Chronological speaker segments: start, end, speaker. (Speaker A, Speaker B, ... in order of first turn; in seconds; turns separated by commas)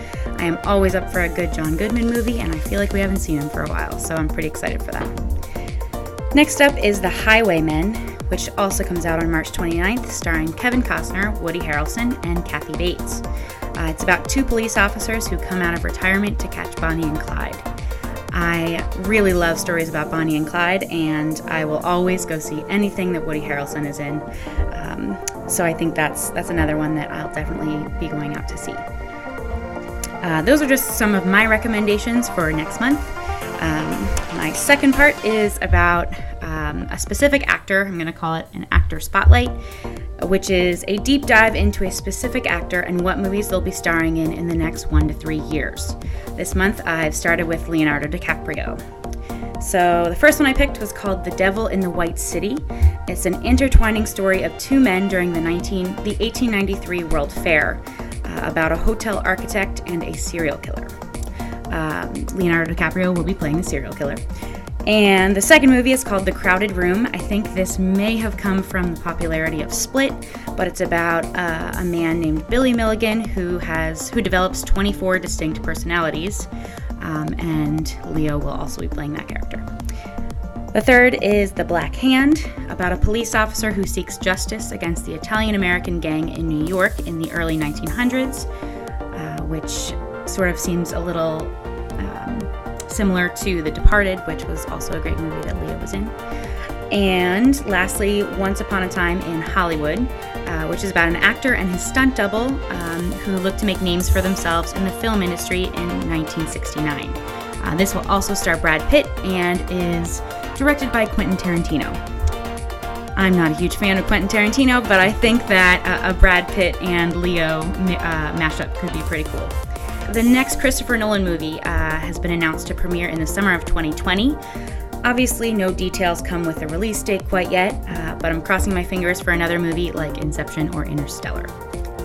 Speaker A: 0.4-5.2, Speaker A: 6.3-13.2, Speaker A: 13.8-17.6, Speaker A: 18.3-28.8, Speaker A: 30.2-39.6, Speaker A: 40.2-48.8, Speaker A: 49.6-60.9, Speaker A: 61.7-64.2, Speaker A: 64.9-76.5, Speaker A: 77.0-79.7, Speaker A: 80.7-88.5, Speaker A: 89.2-96.2, Speaker A: 96.9-112.0, Speaker A: 113.2-119.5, Speaker A: 120.1-124.4, Speaker A: 125.0-131.5